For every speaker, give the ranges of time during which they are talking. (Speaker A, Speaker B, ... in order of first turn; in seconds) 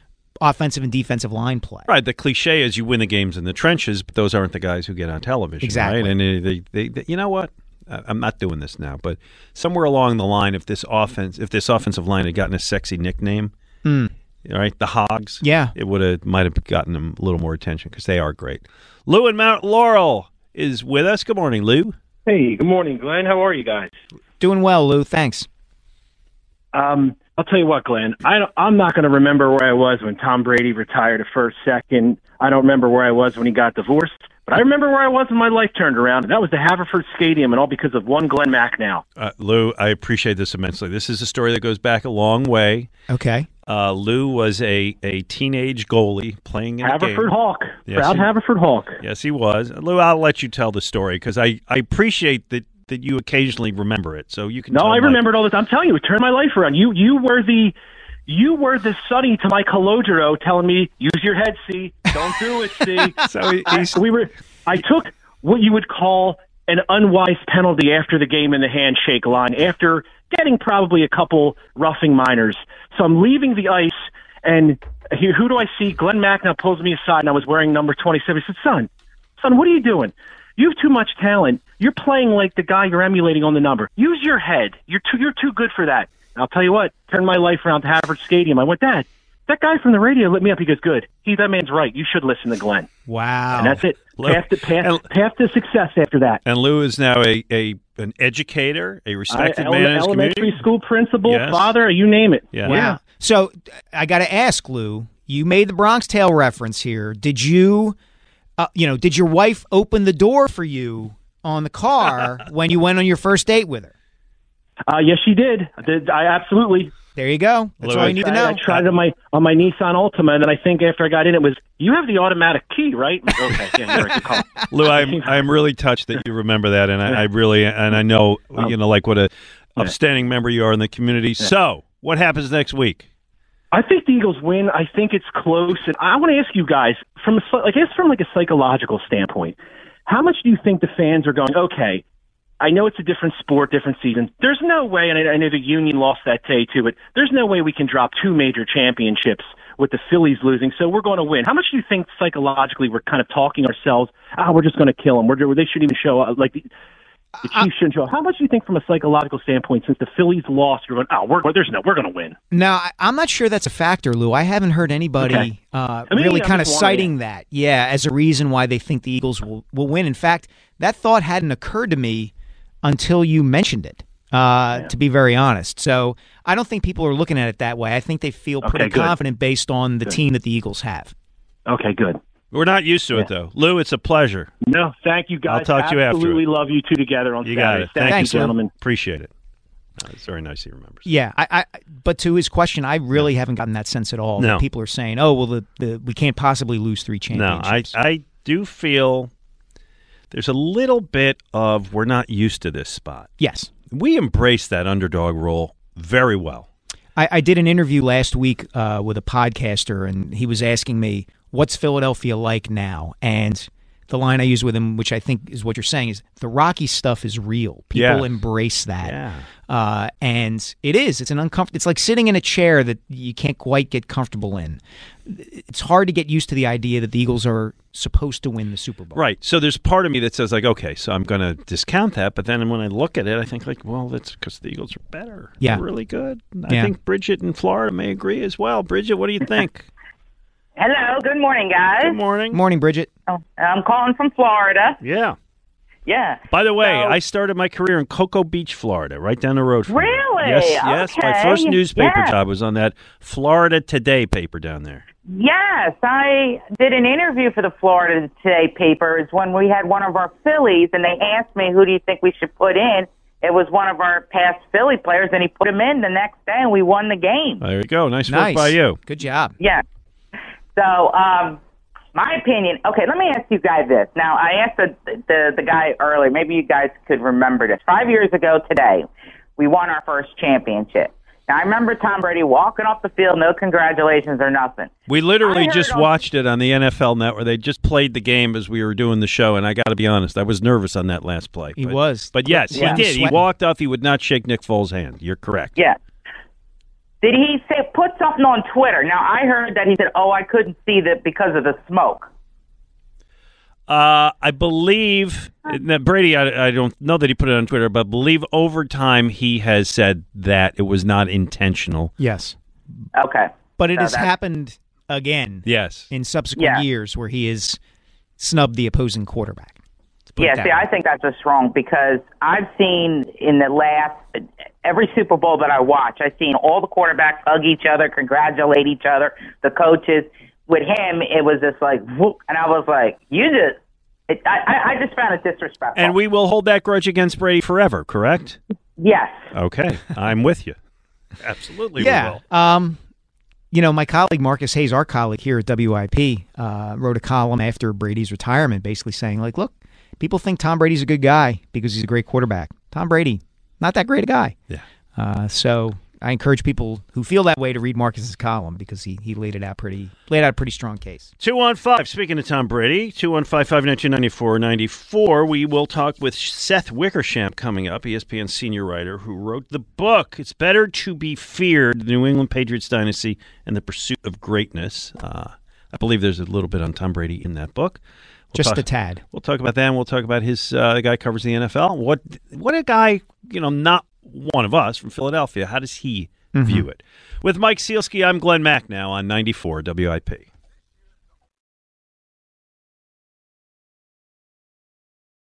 Speaker A: 0.4-1.9, 5.6-6.1, 13.8-14.1, 15.4-15.7, 24.4-25.5, 43.1-43.5, 93.1-93.8, 102.6-108.0, 108.6-113.9, 117.1-118.6, 157.4-157.7, 162.5-181.1, 188.0-188.5, 191.0-197.9, 203.4-203.7, 207.2-229.2, 236.7-236.9, 242.5-243.1, 268.3-269.6, 291.8-293.4, 312.2-312.6, 313.8-317.8, 318.4-319.8, 320.3-320.9, 342.0-343.0, 343.7-354.6, 355.1-361.3, 378.5-379.2, 386.5-386.9
Speaker B: 1.9-13.5, 14.4-21.9, 39.2-42.9, 43.7-47.3, 47.9-48.3, 49.0-55.2, 63.2-64.0, 94.2-95.0, 96.4-100.6, 101.2-101.7, 102.5-102.9, 117.8-118.9, 124.7-133.1, 182.5-184.5, 185.5-186.4, 187.4-189.3, 190.0-191.1, 194.4-194.6, 197.3-199.3, 200.3-203.3, 203.9-206.7, 217.9-218.3, 219.0-219.5, 229.1-239.9, 242.0-242.6, 245.0-245.3, 246.5-255.0, 267.6-269.0, 285.1-295.7, 303.9-312.1, 315.6-316.1, 335.9-338.6, 339.5-340.8, 341.4-342.4, 361.4-378.0, 378.5-390.5
Speaker C: 22.2-23.9, 26.7-39.0, 46.8-49.0, 54.7-57.7, 58.3-63.2, 63.7-92.9, 93.5-96.4, 99.3-103.0, 114.9-116.9, 117.9-125.4, 133.7-139.5, 140.1-142.0, 142.6-156.7, 157.4-162.3, 165.2-165.5, 166.1-167.1, 178.6-179.2, 181.7-182.2, 184.7-188.7
Speaker D: 240.8-242.2, 243.3-245.0, 246.1-247.2, 249.9-252.3, 255.3-267.6, 269.6-269.8, 270.8-271.6, 272.1-284.9, 285.4-286.2, 292.7-293.0, 297.2-302.3, 313.1-314.3, 316.6-316.8, 320.4-333.8, 334.3-336.1, 339.0-339.5